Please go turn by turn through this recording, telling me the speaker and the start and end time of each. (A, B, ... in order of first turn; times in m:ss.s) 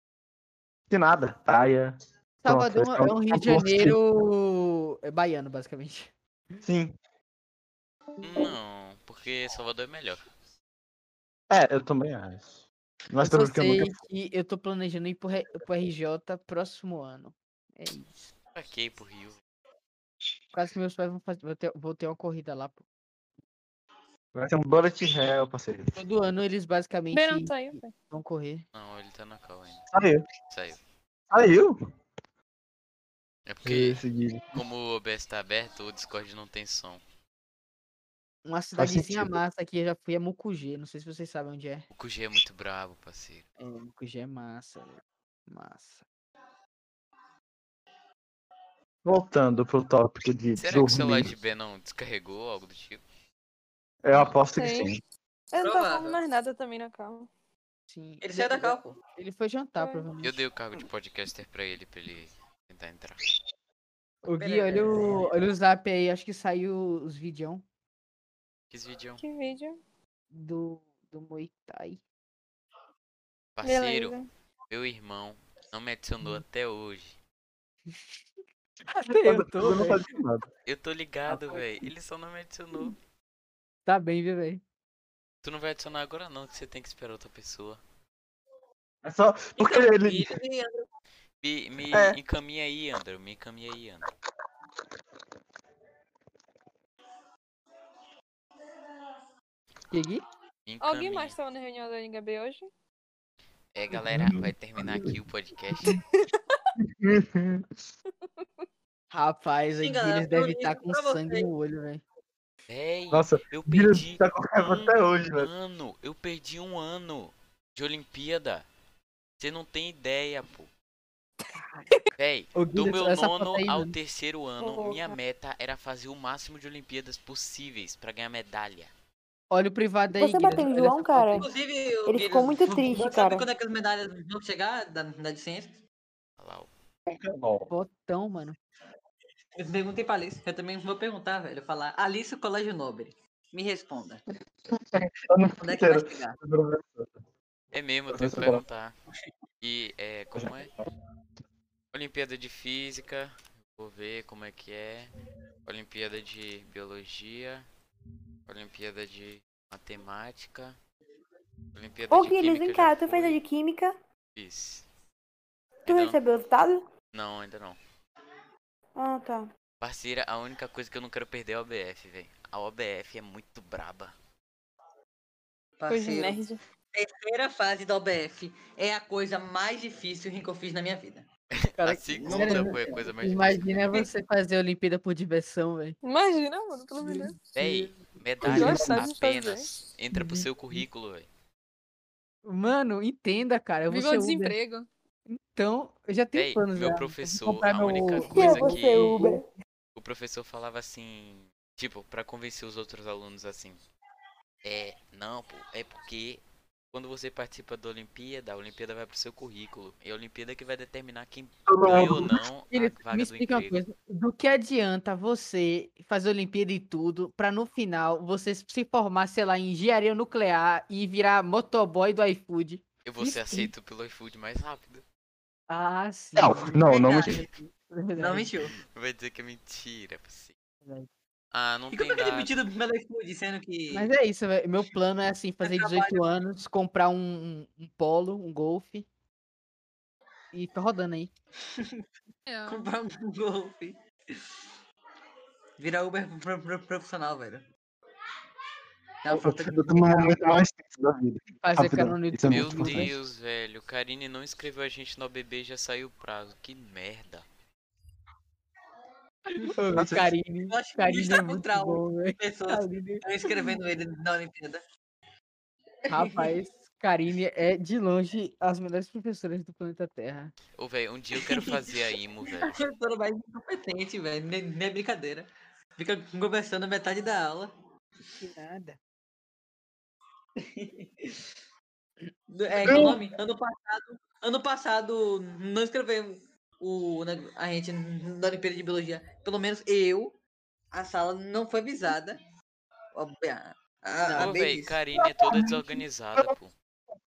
0:00.9-0:04.0 A
0:02.4-0:06.1 B
0:06.6-0:06.9 A
0:08.2-0:10.2 C
0:11.5-0:14.0 A
0:13.2-0:18.3 B
0:18.6-0:19.4 C
0:20.5-0:22.8 B
0:24.4-0:26.0 A
0:26.0-0:28.6 B
0:27.1-0:27.9 D
0:28.7-0:29.9 C
0:29.9-0:30.3 A
0:30.5-0:30.8 C
0:31.3-0:31.8 A
0:33.5-0:34.0 C
0:33.6-0:34.6 A
0:34.5-0:37.0 C
0:38.4-0:41.9 B
0:38.8-0:39.3 A
0:41.9-0:43.5 C
0:43.6-0:46.0 B
0:49.0-0:51.3 A
0:50.6-0:53.0 C
0:54.0-0:55.0 A
0:54.5-0:55.0 D
0:55.5-0:57.3 D
0:55.6-0:56.2 E
0:57.9-1:00.4 B
0:58.2-0:59.0 E
0:59.8-1:00.1 D
1:00.2-1:03.2 C
1:04.2-1:07.6 B
1:04.4-1:05.4 E
1:08.7-1:09.2 C
1:09.2-1:09.8 D
1:10.3-1:12.0 B
1:13.6-1:14.2 C
1:13.6-1:14.3 D
1:14.7-1:17.2 C
1:18.9-1:20.5 A
1:18.9-1:20.0 B
1:20.6-1:23.0 C
1:21.3-1:21.7 B
1:23.9-1:24.6 B
1:25.4-1:27.8 C
1:29.0-1:30.4 A
1:29.6-1:30.9 E
1:31.4-1:34.0 C
1:31.9-1:32.2 A
1:39.9-1:40.2 B
1:40.7-1:41.4 C
1:40.8-1:42.7 D
1:43.8-1:46.0 C
1:44.1-1:45.1 A
1:47.0-1:47.7 A
1:49.1-1:52.0 B
1:49.8-1:51.5 E
1:52.7-1:58.7 C
1:53.1-1:55.5 A
1:59.4-2:00.7 C
2:02.2-2:08.9 C
2:02.6-2:04.0 B
2:04.6-2:05.2 F
2:09.5-2:11.4 B
2:10.2-2:11.5 F
2:11.3-2:15.8 E
2:12.1-2:13.5 F
2:16.4-2:16.7 C
2:17.2-2:17.7 A
2:17.7-2:18.6 B
2:19.6-2:24.2 E
2:24.7-2:27.2 A
2:25.6-2:26.4 E
2:27.7-2:28.9 C
2:28.1-2:28.6 A
2:29.6-2:30.7 C
2:31.9-2:35.1 C
2:35.6-2:37.7 C
2:38.5-2:40.8 C
2:41.7-2:43.4 C
2:42.1-2:44.0 F
2:44.4-2:44.9 C
2:45.9-2:46.2 C
2:45.9-2:46.9 F
2:47.1-2:47.8 C
2:49.0-2:49.5 F
2:49.8-2:54.2 C
2:55.8-2:56.4 E
2:55.9-2:56.6 D
2:56.9-3:01.3 E
3:01.5-3:03.9 C
3:01.8-3:06.0 B
3:02.2-3:03.0 E
3:06.0-3:07.4 D
3:07.0-3:07.9 B
3:07.5-3:11.3 C
3:08.4-3:09.1 A
3:08.5-3:09.8 D
3:10.1-3:10.8 B
3:12.4-3:14.6 B
3:13.9-3:14.9 D
3:15.3-3:19.4 B
3:16.3-3:19.2 C
3:18.3-3:19.5 F
3:20.0-3:23.8 C
3:24.6-3:33.8 C
3:31.7-3:32.4 A
3:32.7-3:43.7 B
3:43.0-3:45.0 C
3:45.7-3:48.5 B
3:46.4-3:47.4 A
3:46.9-3:47.5 E
3:48.2-3:48.8 E
3:48.9-3:50.5 C
3:50.8-3:51.1 B
3:51.5-3:52.6 C
3:51.9-3:54.1 E
3:53.9-3:59.1 B
3:55.6-3:56.2 E
4:00.5-4:01.3 B
4:01.7-4:02.0 E
4:02.5-4:02.9 D
4:02.7-4:04.6 E
4:05.8-4:07.6 E
4:09.2-4:10.3 E
4:09.3-4:13.1 A
4:11.6-4:13.1 B
4:12.5-4:17.4 C
4:19.6-4:23.2 B
4:20.6-4:24.8 E
4:26.1-4:26.6 E
4:26.1-4:30.5 B
4:30.8-4:32.8 C
4:31.4-4:31.8 E
4:32.6-4:37.7 E
4:38.4-4:39.0 B
4:40.6-4:41.4 E
4:42.5-4:50.4 E
4:42.8-4:43.2 A
4:50.9-4:52.4 E
4:53.2-4:55.0 E
4:54.2-4:54.5 B
4:54.4-4:56.7 C
4:55.2-4:55.8 A